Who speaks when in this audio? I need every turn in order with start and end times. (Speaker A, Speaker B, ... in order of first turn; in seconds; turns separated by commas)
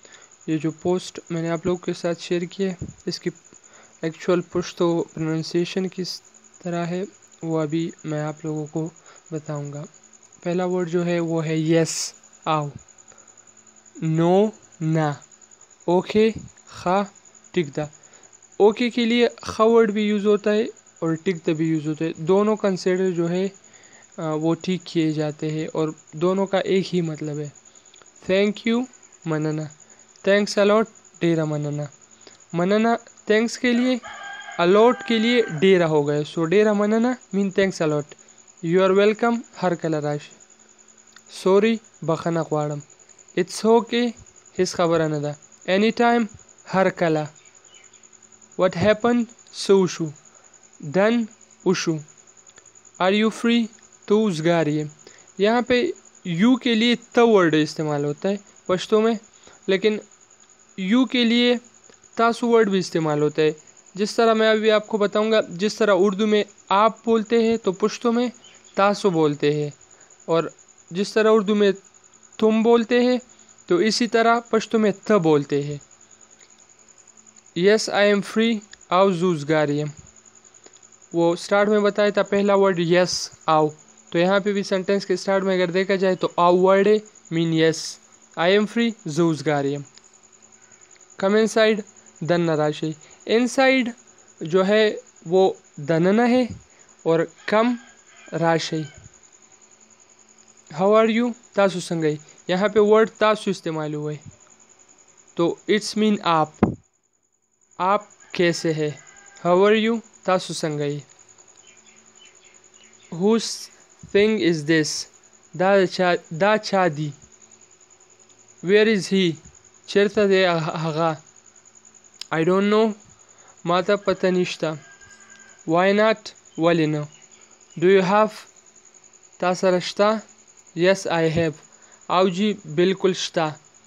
Speaker A: 0.5-3.4, Speaker A: 4.0-9.9, Speaker A: 10.4-12.8, Speaker A: 14.0-15.2, Speaker A: 15.9-17.9, Speaker A: 18.6-23.5, Speaker A: 24.2-27.5, Speaker A: 28.2-29.7, Speaker A: 30.2-31.9, Speaker A: 32.5-34.0, Speaker A: 34.6-40.4, Speaker A: 41.3-42.8, Speaker A: 43.4-47.3, Speaker A: 48.6-50.2, Speaker A: 50.8-52.0, Speaker A: 53.0-60.0, Speaker A: 60.8-61.6, Speaker A: 62.2-69.8, Speaker A: 70.3-71.8, Speaker A: 72.4-75.8, Speaker A: 77.6-79.9, Speaker A: 81.1-89.9, Speaker A: 91.2-96.5, Speaker A: 97.0-98.9, Speaker A: 100.7-104.2, Speaker A: 105.4-106.6, Speaker A: 107.8-111.1, Speaker A: 113.1-117.2, Speaker A: 118.6-121.2, Speaker A: 122.3-123.0, Speaker A: 123.6-124.8, Speaker A: 125.7-127.1, Speaker A: 127.8-128.5, Speaker A: 129.4-130.2, Speaker A: 130.8-133.6